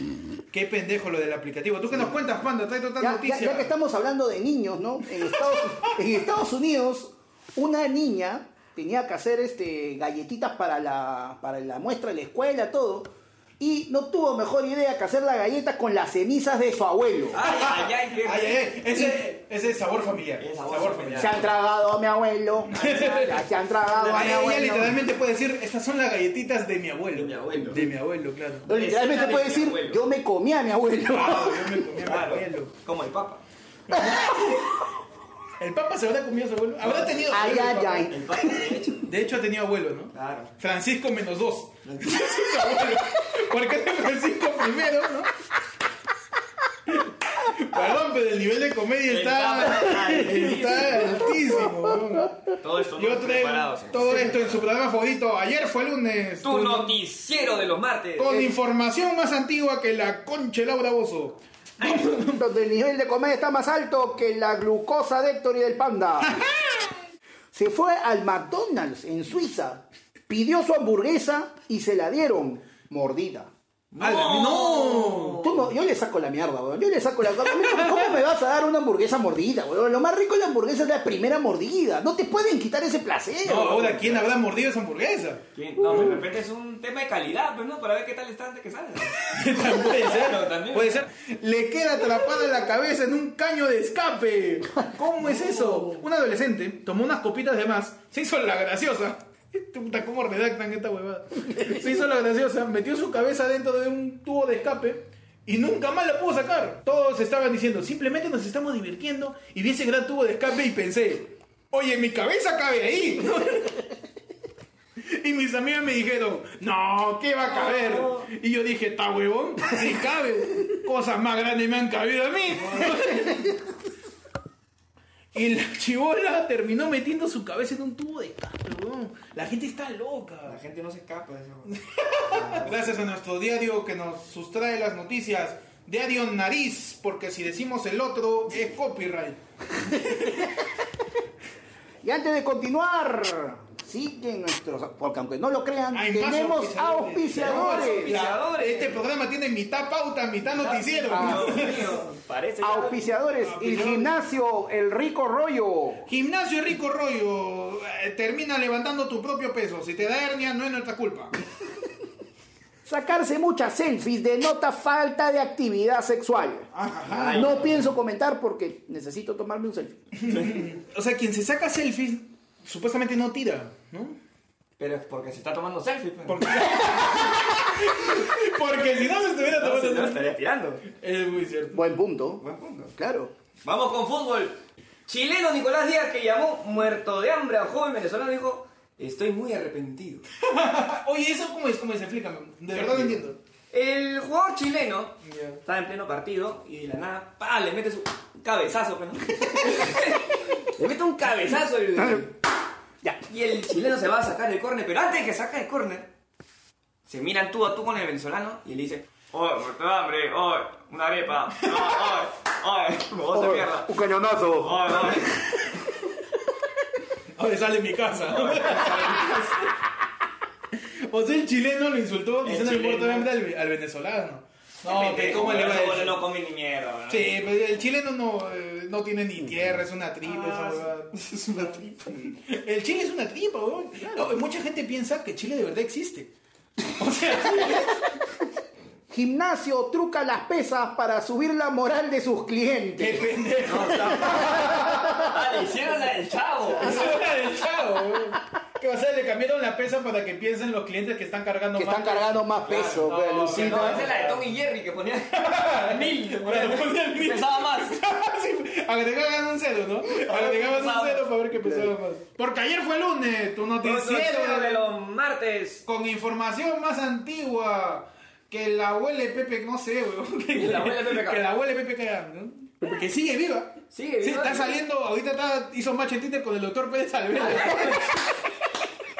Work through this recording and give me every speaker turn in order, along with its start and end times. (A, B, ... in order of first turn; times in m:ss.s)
0:00.5-0:03.7 A
0:03.0-0:17.4 B
0:17.3-0:18.6 C
0:17.4-0:21.4 A
0:18.9-0:19.2 B
0:20.4-0:21.4 C
0:21.2-0:25.0 B
0:22.7-0:23.4 A
0:22.8-0:23.3 C
0:23.8-0:24.6 C
0:24.1-0:28.7 A
0:27.1-0:27.8 C
0:28.6-0:31.9 B
0:28.7-0:30.0 C
0:31.0-0:32.7 A
0:32.0-0:33.4 C
0:33.9-0:34.6 A
0:35.6-0:38.1 A
0:36.8-0:37.2 C
0:37.3-0:38.5 B
0:38.1-0:39.0 C
0:39.0-0:45.3 A
0:40.1-0:40.5 C
0:41.8-0:42.4 C
0:46.9-0:57.0 A
0:49.1-0:51.3 C
0:52.6-0:54.7 C
0:56.4-0:58.3 C
0:58.2-1:02.4 A
1:01.8-1:02.1 C
1:02.3-1:06.4 B
1:06.2-1:06.8 A
1:07.5-1:13.5 B
1:13.9-1:15.7 C
1:14.0-1:15.5 A
1:15.4-1:23.9 B
1:23.4-1:26.2 A
1:23.8-1:24.3 C
1:25.5-1:31.0 C
1:29.3-1:53.9 A
1:35.2-1:36.0 C
1:55.2-2:03.6 A
1:57.5-1:58.2 C
2:05.3-2:10.6 A
2:10.4-2:13.0 C
2:11.7-2:20.4 A
2:22.0-2:28.2 B
2:25.9-2:32.0 A
2:27.3-2:29.0 C
2:30.5-2:33.1 C
2:31.1-2:31.6 B
2:32.6-2:36.0 B
2:33.4-2:34.2 A
2:36.0-2:41.3 A
2:42.8-2:46.7 B
2:46.7-2:47.6 A
2:47.1-2:47.9 C
2:47.3-2:50.0 B
2:50.2-2:54.2 A
2:54.8-2:56.6 C
2:56.3-3:00.2 A
2:59.4-3:00.8 C
3:01.0-3:01.8 A
3:01.7-3:02.4 B
3:02.4-3:02.9 C
3:02.9-3:03.3 B
3:03.6-3:10.2 C
3:10.4-3:13.4 A
3:12.7-3:13.2 C
3:13.7-3:22.3 C
3:15.2-3:15.6 A
3:22.0-3:22.3 B
3:23.3-3:26.1 C
3:27.0-3:33.9 C
3:31.6-3:32.1 A
3:33.3-3:35.2 B
3:34.6-3:35.3 C
3:37.4-3:39.8 A
3:38.3-3:39.1 C
3:41.1-3:46.2 A
3:42.4-3:43.3 C
3:44.8-3:47.4 C
3:47.1-3:56.3 A
3:50.2-3:52.3 C
3:56.9-3:58.0 A
3:59.1-4:03.3 B
4:03.0-4:05.2 A
4:03.6-4:07.2 C
4:06.8-4:12.4 A
4:11.8-4:14.3 B
4:12.6-4:18.0 C
4:13.0-4:14.4 A
4:15.3-4:24.8 A
4:20.0-4:21.3 C
4:21.6-4:21.9 B
4:23.8-4:25.8 C
4:25.8-4:38.3 A
4:30.5-4:31.5 C
4:33.9-4:34.8 C
4:37.4-4:38.0 C